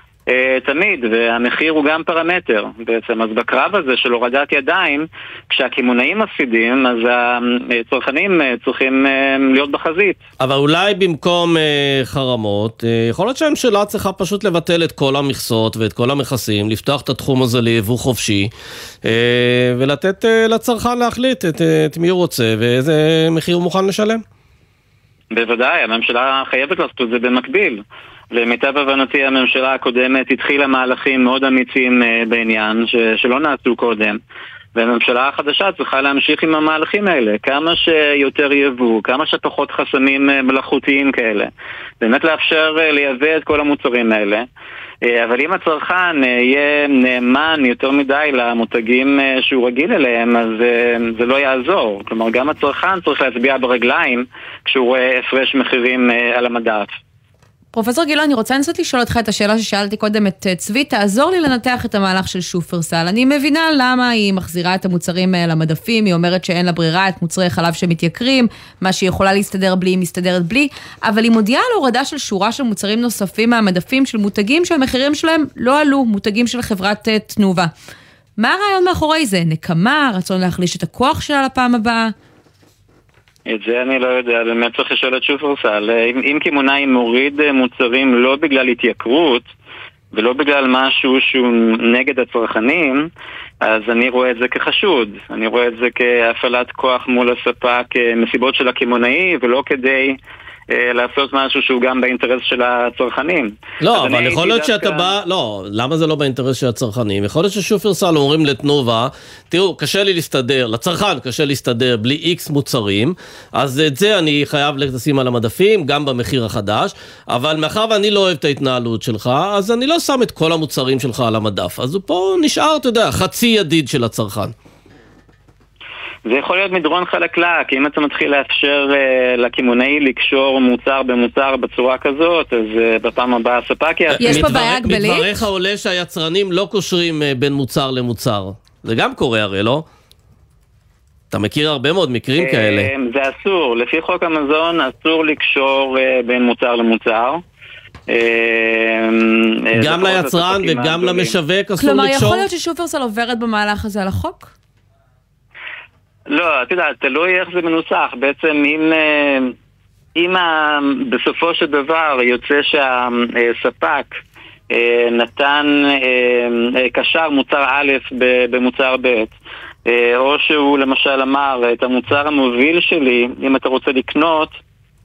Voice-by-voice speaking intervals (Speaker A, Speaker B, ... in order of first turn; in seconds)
Speaker A: 0.3-10.2, 25.3-27.8, 28.3-34.2, 34.8-41.5, 42.0-44.5, 45.1-57.0, 83.5-89.5, 90.1-93.0, 93.6-100.2, 100.7-105.1, 126.3-134.4, 142.4-147.4, 148.1-151.3, 156.3-159.5, 160.2-164.2, 164.7-169.3, 169.9-174.6
Speaker B: 10.4-18.5, 19.0-24.2, 103.8-124.5, 134.1-139.8, 141.3-142.9, 149.8-152.5
Speaker C: 57.7-77.7, 78.4-82.1, 134.2-135.3, 151.8-154.5